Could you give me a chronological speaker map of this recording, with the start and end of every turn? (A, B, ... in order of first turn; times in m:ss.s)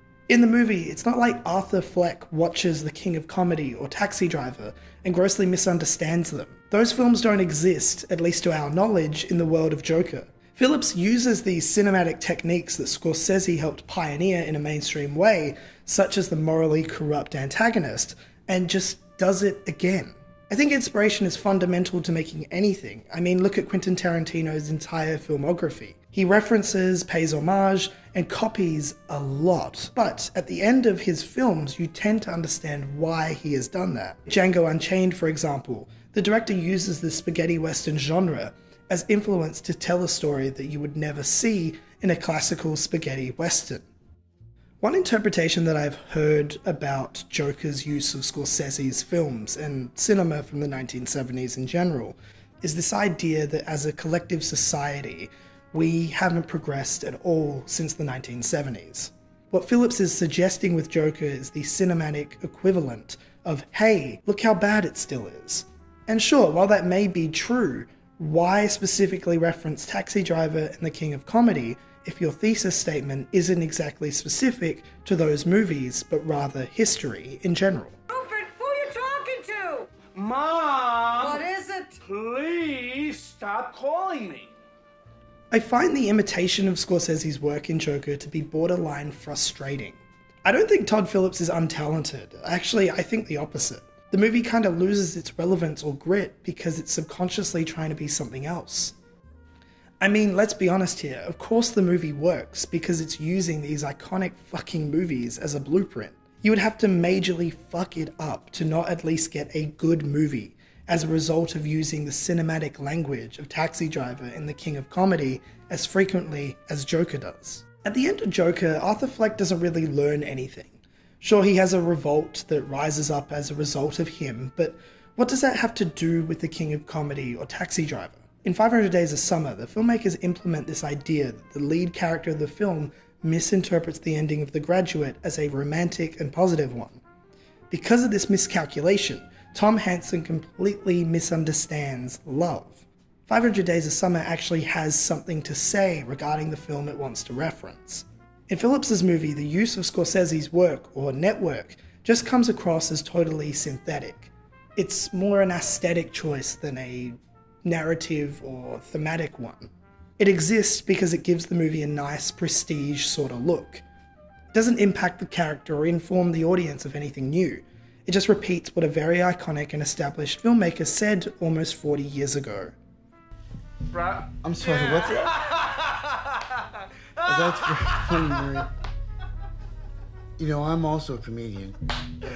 0:00.3-0:43.9 A
0:44.8-1:18.0 A
1:18.1-1:19.9 B
1:20.0-1:21.4 C
1:21.2-1:22.0 B
1:22.0-1:24.5 C
1:25.5-1:38.9 A
1:40.0-2:17.0 A
2:17.7-2:43.8 A
2:44.5-2:52.8 A
2:53.9-2:58.4 C
2:54.4-2:55.4 D
2:57.2-2:58.7 D
3:00.4-3:01.8 D